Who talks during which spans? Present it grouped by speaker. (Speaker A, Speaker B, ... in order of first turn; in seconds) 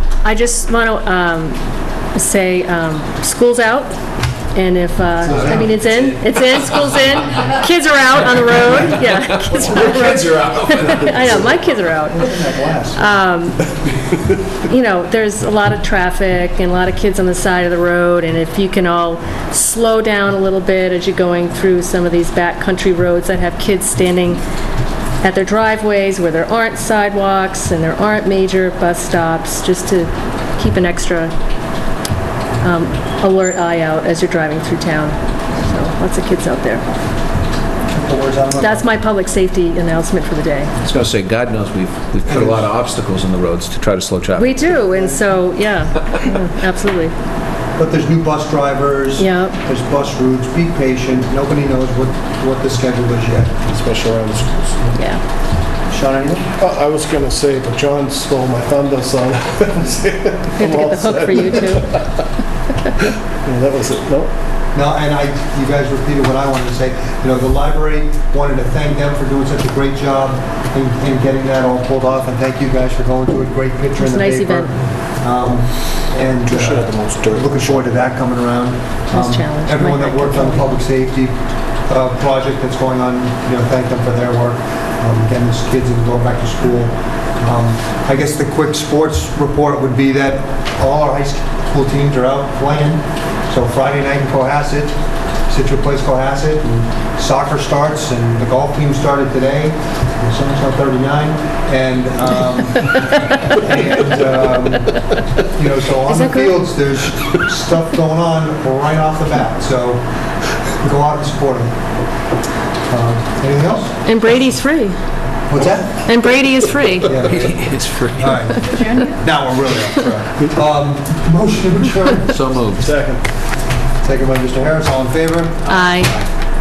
Speaker A: 0.2-1.6, 2.1-4.0, 4.5-13.7, 14.6-24.4, 25.2-31.3, 32.6-36.9, 38.6-40.7, 44.3-47.1, 49.2-49.6, 54.9-55.2, 60.6-62.0, 74.0-74.7, 79.1-80.8, 106.1-106.7, 114.0-115.0, 116.0-117.2, 125.7-126.1
Speaker B: 5.2-5.8, 12.1-13.0, 37.9-38.9, 42.3-42.7, 44.9-45.4, 47.8-53.6, 55.9-56.5, 64.7-95.0, 95.5-110.0, 110.8-111.8, 112.9-114.0, 115.5-116.0, 117.0-122.4, 124.0-125.8
Speaker C: 5.3-6.9, 9.5-11.1, 40.8-44.6, 117.2-118.3, 122.3-122.9
Speaker D: 53.7-55.0, 56.6-62.2, 63.0-64.3, 76.5-78.1, 122.7-123.2